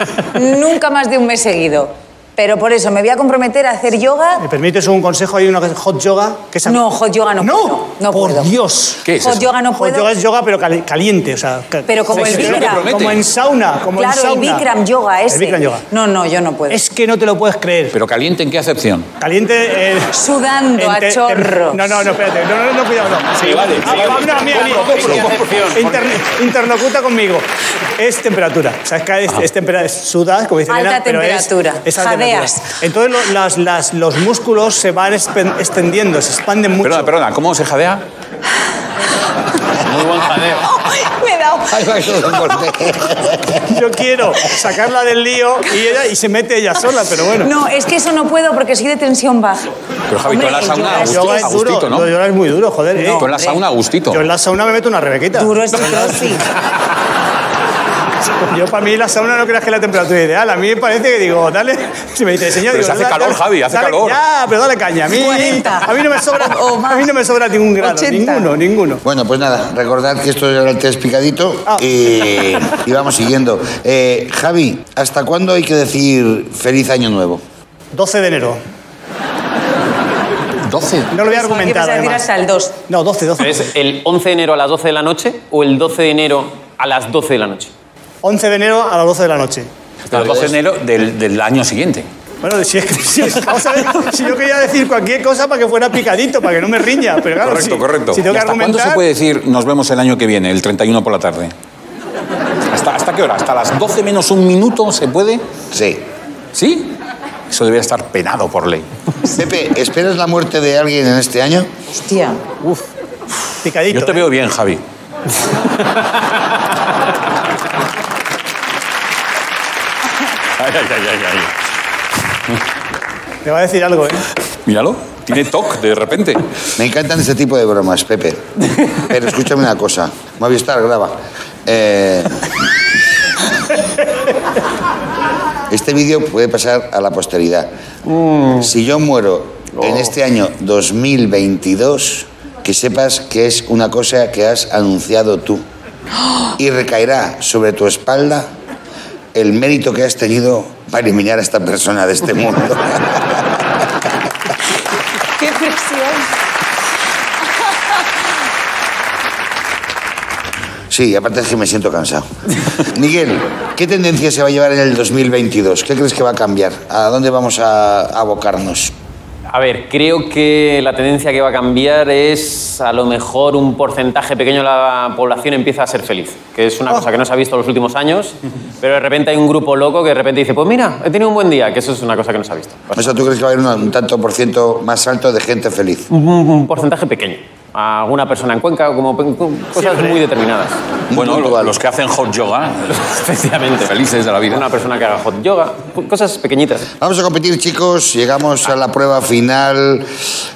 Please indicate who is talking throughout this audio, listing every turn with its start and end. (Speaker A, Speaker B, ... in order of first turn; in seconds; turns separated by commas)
Speaker A: 0.3-4.4, Speaker B: 4.4-6.8, Speaker A: 6.6-8.5, Speaker B: 7.4-9.0, Speaker C: 9.0-9.5, Speaker A: 9.2-10.1, Speaker B: 9.8-14.7, Speaker A: 11.9-12.9, Speaker C: 12.1-13.2, Speaker A: 13.9-16.8, Speaker B: 15.3-15.8, Speaker B: 16.7-17.9, Speaker C: 17.9-19.1, Speaker B: 19.2-20.1, Speaker A: 20.1-22.0, Speaker B: 20.8-37.1, Speaker D: 23.4-26.2, Speaker C: 23.4-25.5, Speaker A: 30.7-32.7, Speaker C: 36.8-38.0, Speaker D: 39.8-40.6, Speaker A: 40.6-41.9, Speaker E: 41.7-43.6, Speaker B: 43.7-47.5, Speaker A: 47.4-49.7, Speaker C: 50.1-52.1, Speaker A: 50.2-51.5, Speaker B: 50.9-53.2, Speaker A: 53.0-53.6, Speaker C: 53.1-54.2, Speaker B: 54.1-56.2, Speaker A: 55.3-56.5, Speaker B: 58.4-69.0, Speaker C: 62.7-64.2, Speaker A: 65.1-67.1, Speaker A: 67.8-68.5, Speaker E: 69.0-77.4, Speaker B: 77.9-78.6, Speaker C: 80.6-81.1, Speaker B: 81.1-82.2, Speaker A: 81.2-82.8, Speaker B: 82.9-83.7, Speaker D: 83.4-87.7, Speaker B: 88.2-89.7, Speaker C: 90.1-92.1, Speaker B: 92.4-99.0, Speaker C: 97.4-101.5, Speaker C: 102.7-105.4, Speaker E: 105.7-106.0, Speaker C: 106.5-106.9, Speaker C: 107.5-108.8, Speaker E: 109.2-111.7, Speaker A: 111.9-112.4, Speaker B: 113.6-114.3, Speaker C: 113.9-114.8, Speaker C: 120.6-121.5, Speaker B: 123.4-124.2, Speaker C: 124.7-126.4, Speaker E: 126.8-128.4, Speaker E: 128.9-132.5, Speaker E: 135.7-137.7, Speaker D: 138.1-138.6, Speaker E: 138.6-145.6, Speaker D: 139.8-140.0, Speaker E: 146.6-148.5, Speaker E: 149.3-153.3, Speaker A: 155.4-156.3, Speaker E: 160.9-162.3, Speaker E: 162.8-168.9, Speaker D: 169.5-183.0, Speaker E: 182.9-186.1, Speaker D: 186.1-190.8, Speaker E: 191.1-191.7, Speaker C: 191.1-193.0, Speaker D: 192.9-193.9, Speaker C: 193.8-194.7, Speaker D: 194.5-196.9, Speaker E: 197.0-200.1